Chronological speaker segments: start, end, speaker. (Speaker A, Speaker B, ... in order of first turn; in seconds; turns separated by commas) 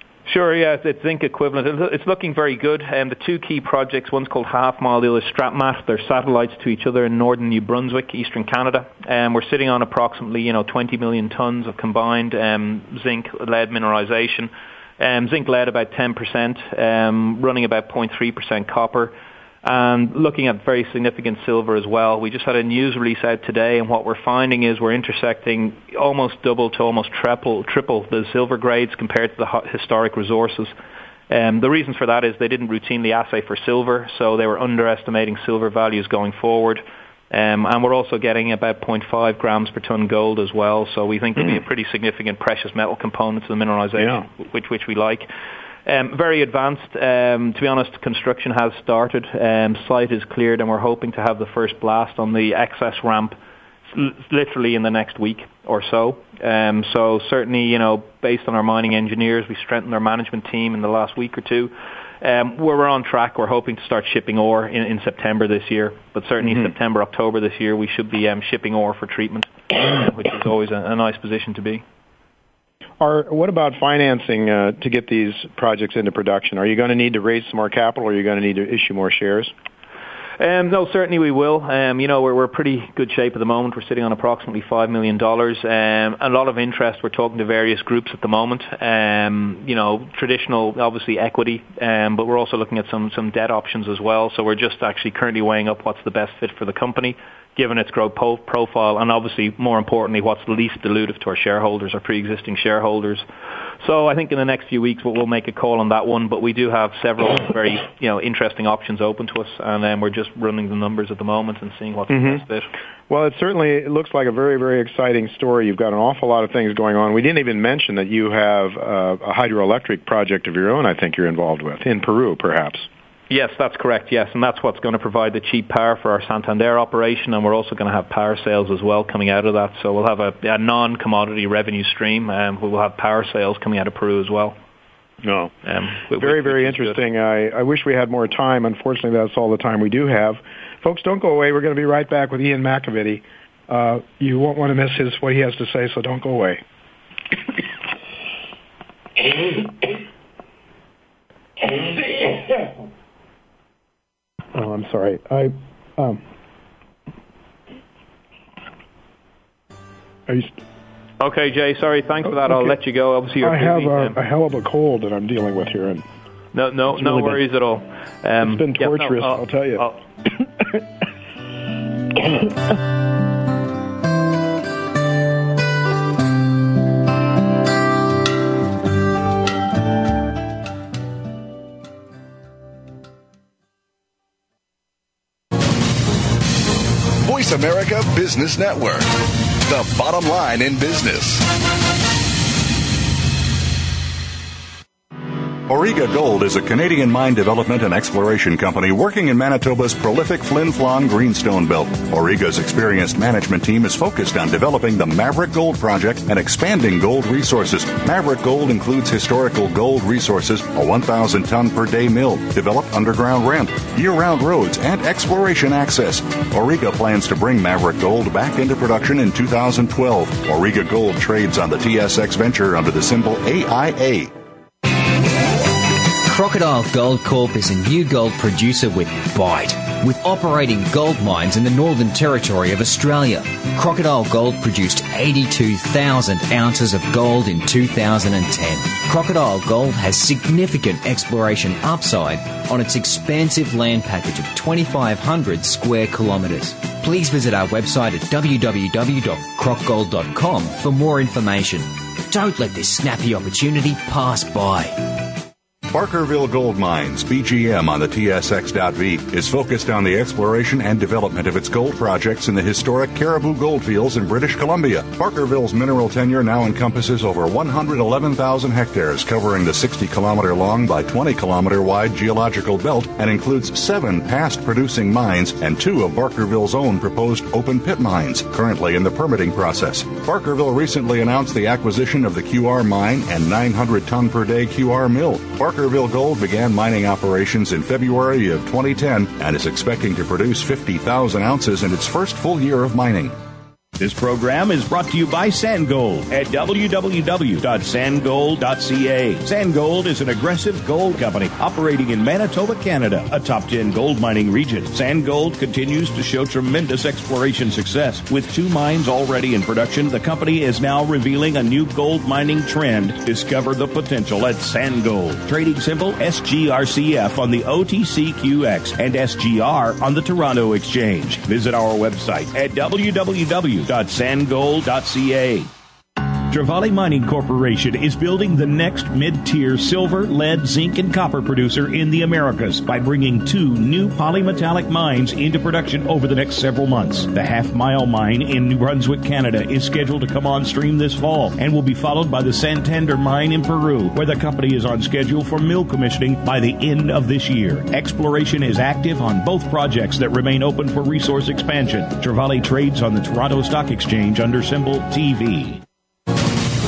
Speaker A: 0.2-30.7, Speaker A: 31.3-45.3, Speaker A: 45.8-53.4, Speaker A: 53.9-71.8, Speaker B: 73.0-79.5, Speaker A: 80.4-103.2, Speaker A: 103.8-112.7, Speaker B: 112.1-112.4, Speaker B: 113.1-122.9, Speaker A: 123.3-134.6, Speaker B: 135.2-135.5, Speaker A: 135.6-137.0, Speaker B: 136.1-146.6, Speaker B: 154.5-156.2, Speaker B: 160.3-160.5, Speaker A: 161.2-164.2, Speaker B: 163.4-166.0, Speaker A: 166.5-170.0, Speaker B: 166.9-167.3, Speaker B: 168.4-169.8, Speaker C: 187.2-191.5, Speaker D: 195.7-224.3, Speaker E: 226.2-255.0, Speaker D: 255.9-293.4, Speaker F: 294.0-325.7, Speaker F: 326.5-355.8